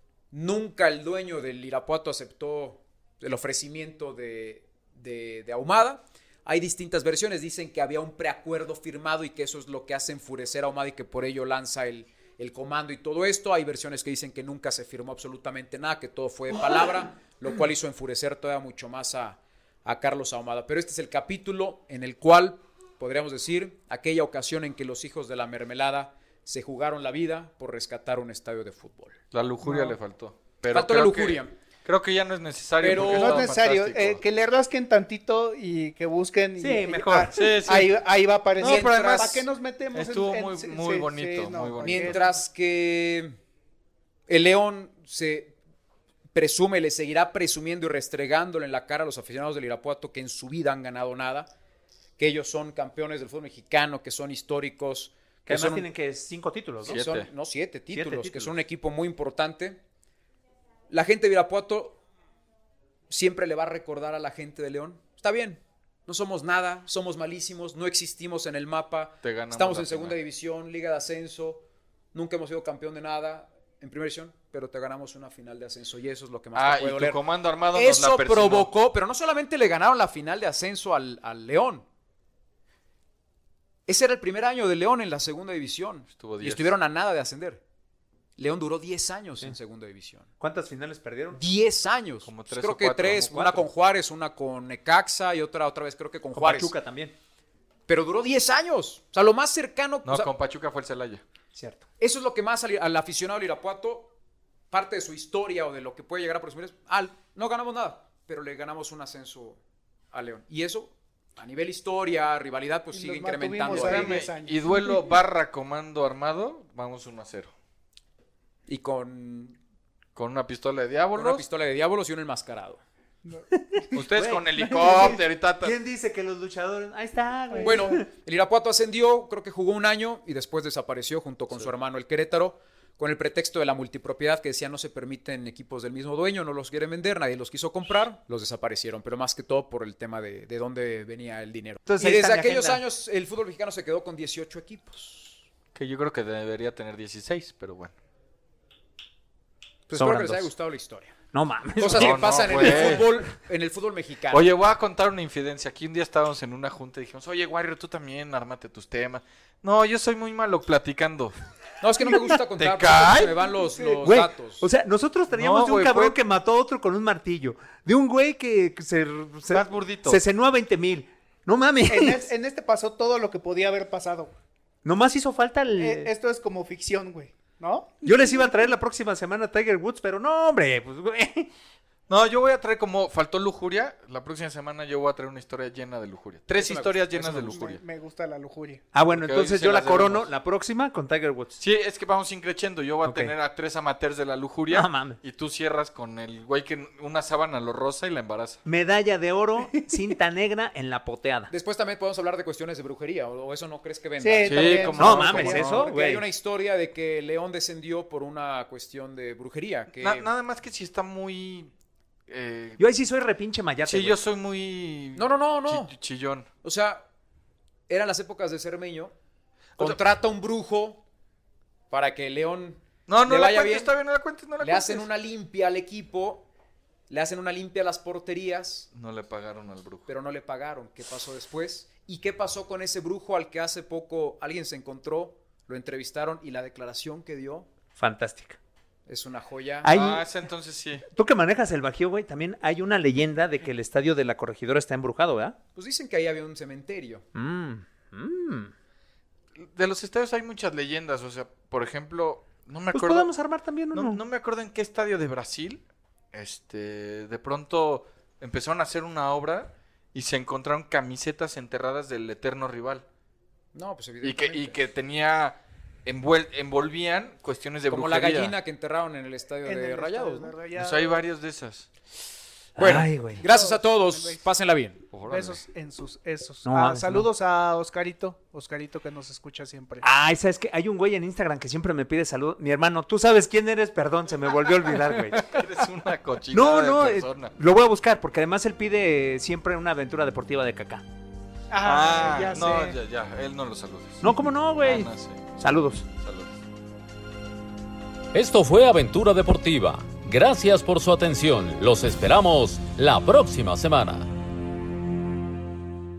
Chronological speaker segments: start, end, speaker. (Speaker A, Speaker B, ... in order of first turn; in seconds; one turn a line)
Speaker A: 0.3-29.2
Speaker B: 29.3-34.2
Speaker C: 29.6-30.0
Speaker A: 30.7-31.5
Speaker A: 32.8-33.5
Speaker C: 32.9-42.2
Speaker D: 36.6-37.3
Speaker B: 37.3-38.0
Speaker B: 38.6-42.2
Speaker A: 38.6-39.4
Speaker A: 41.8-43.4
Speaker A: 44.3-45.6
Speaker A: 46.3-51.5
Speaker A: 52.2-55.9
Speaker D: 55.5-57.0
Speaker A: 56.8-59.8
Speaker B: 56.9-57.3
Speaker D: 57.9-58.5
Speaker A: 60.9-62.0
Speaker A: 63.1-71.6
Speaker B: 69.2-70.2
Speaker A: 72.1-77.2
Speaker B: 76.5-78.7
Speaker A: 77.7-81.9
Speaker A: 83.9-87.6
Speaker B: 86.2-86.7
Speaker A: 88.4-90.3
Speaker D: 90.4-91.4
Speaker A: 91.3-96.7
Speaker B: 92.3-93.7
Speaker D: 96.3-97.2
Speaker A: 97.9-100.3
Speaker B: 100.0-101.2
Speaker D: 101.5-101.9
Speaker A: 102.0-104.1
Speaker A: 104.7-109.6
Speaker A: 110.1-114.2
Speaker C: 112.9-115.0
Speaker B: 113.7-117.5
Speaker A: 118.7-119.6
Speaker B: 120.2-121.5
Speaker A: 121.2-122.8
Speaker D: 123.5-128.1
Speaker B: 123.9-125.8
Speaker C: 124.8-125.0
Speaker A: 127.6-145.4
Speaker D: 141.9-142.8
Speaker B: 145.8-147.9
Speaker A: 149.9-151.2
Speaker D: 149.9-150.5
Speaker D: 151.3-153.1
Speaker A: 151.8-154.5
Speaker B: 151.9-153.1
Speaker B: 154.3-161.3
Speaker A: 161.8-164.7
Speaker B: 162.6-163.4
Speaker D: 164.0-172.3
Speaker B: 165.3-166.2
Speaker B: 169.5-170.2
Speaker C: 171.9-174.3
Speaker D: 174.8-176.1
Speaker C: 175.8-178.2
Speaker D: 178.0-181.5
Speaker B: 182.1-187.8
Speaker A: 186.6-187.6
Speaker C: 187.2-188.8
Speaker D: 188.9-191.6
Speaker B: 189.2-190.3
Speaker B: 191.6-198.6
Speaker D: 193.1-193.3
Speaker D: 194.7-195.2
Speaker D: 198.7-201.5
Speaker A: 201.5-210.3
Speaker C: 204.2-205.8
Speaker B: 204.4-205.8
Speaker D: 205.0-206.2
Speaker B: 210.0-211.7
Speaker B: 212.3-212.8
Speaker D: 212.8-214.2
Speaker B: 213.9-216.5
Speaker A: 215.2-215.9
Speaker A: 216.6-217.0
Speaker A: 217.9-219.1
Speaker A: 219.8-221.0
Speaker A: 221.9-223.9
Speaker B: 223.1-225.1
Speaker A: 224.6-226.5
Speaker A: 227.1-228.9
Speaker B: 228.9-230.1
Speaker A: 230.1-237.7
Speaker D: 238.0-238.6
Speaker A: 239.1-240.0
Speaker D: 239.8-240.3
Speaker B: 239.9-241.1
Speaker D: 241.1-245.6
Speaker A: 245.8-247.2
Speaker D: 247.3-248.7
Speaker B: 249.6-253.3
Speaker D: 252.9-254.2
Speaker B: 253.9-255.8
Speaker B: 256.3-263.1
Speaker A: 263.7-264.8
Speaker B: 264.2-268.5
Speaker A: 267.9-270.5
Speaker C: 269.6-271.2
Speaker B: 270.8-271.9
Speaker D: 272.8-273.4
Speaker A: 272.8-275.0
Speaker C: 273.4-274.4
Speaker B: 275.1-275.6
Speaker C: 275.3-280.1
Speaker D: 276.6-277.3
Speaker D: 280.0-285.6
Speaker B: 285.3-287.5
Speaker D: 286.5-291.0
Speaker C: 291.7-292.9
Speaker B: 291.8-295.6
Speaker D: 294.2-296.1
Speaker B: 296.2-296.6
Speaker E: 298.3-304.3